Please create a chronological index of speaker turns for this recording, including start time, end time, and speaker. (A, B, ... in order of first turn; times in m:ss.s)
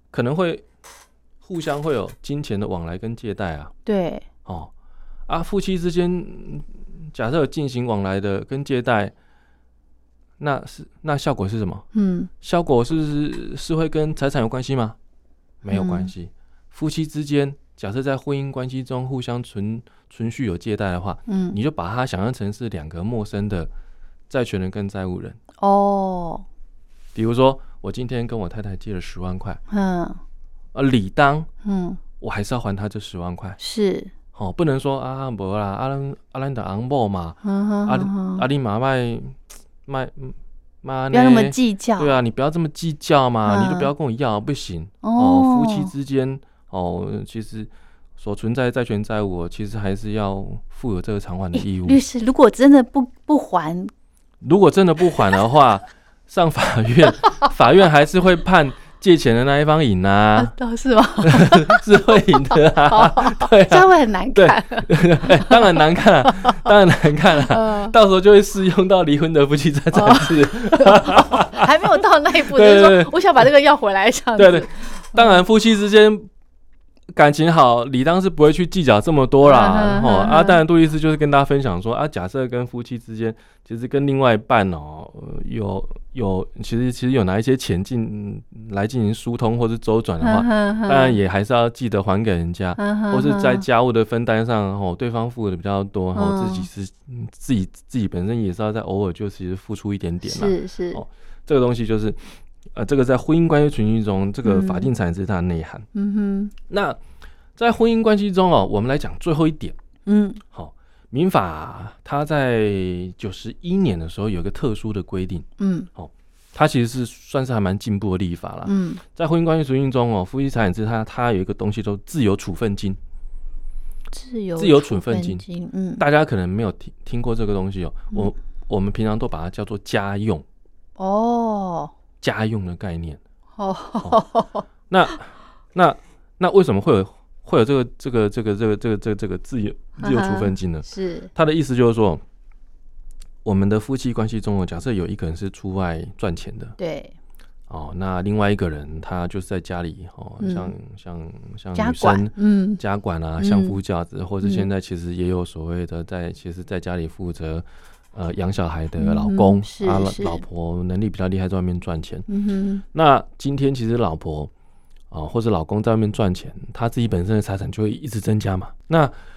0:00.1-0:00.6 A
0:01.4-0:03.7 A
0:03.8-0:04.2 B
0:04.4-0:04.7 A
0:05.3-0:09.1 A
0:10.4-0:11.8 A
0:11.9-0:12.3 B
0:12.4-0:15.0 A
0:15.6-0:23.7 A
0:15.7-0:16.1 B
0:21.3-0:21.6 B
0:24.3-0:25.4 A
0:25.6-0:26.4 B
0:27.1-0:29.6 A
0:29.7-0:30.2 B
0:30.7-0:31.5 A
0:31.6-0:32.0 B
0:32.2-0:33.6 A
0:33.6-0:34.1 B
0:34.3-0:52.0 A
0:37.4-0:38.4 B
0:41.1-0:42.2 B
0:43.4-0:43.9 B
0:45.0-0:45.9 B
0:51.6-0:53.9 B
0:54.4-1:00.5 A
1:00.4-1:06.7 B
1:01.2-1:13.1 A
1:07.4-1:08.0 B
1:09.9-1:15.4 B
1:14.4-1:16.3 A
1:17.1-1:45.8 A
1:19.4-1:20.6 B
1:30.2-1:31.2 B
1:32.8-1:33.7 B
1:36.1-1:36.7 B
1:40.2-1:41.0 B
1:44.4-1:44.9 B
1:45.9-1:46.5 B
1:46.7-1:47.0 A
1:47.6-1:49.8 A
1:50.1-1:50.4 B
1:50.5-2:03.0 A
1:55.6-1:55.9 B
1:58.6-1:59.0 B
2:04.1-2:06.0 B
2:04.6-2:05.4 A
2:06.0-2:10.4 A
2:11.0-2:11.9 B
2:12.2-2:13.2 A
2:13.6-2:14.7 B
2:14.9-2:22.2 A
2:20.0-2:21.3 B
2:23.4-2:26.7 A
2:26.8-2:27.2 B
2:27.7-2:42.3 A
2:30.4-2:30.7 B
2:31.8-2:32.8 B
2:33.4-2:33.8 B
2:34.4-2:34.7 B
2:39.0-2:40.4 B
2:42.3-2:42.8 B
2:42.8-2:44.5 A
2:45.1-2:49.1 A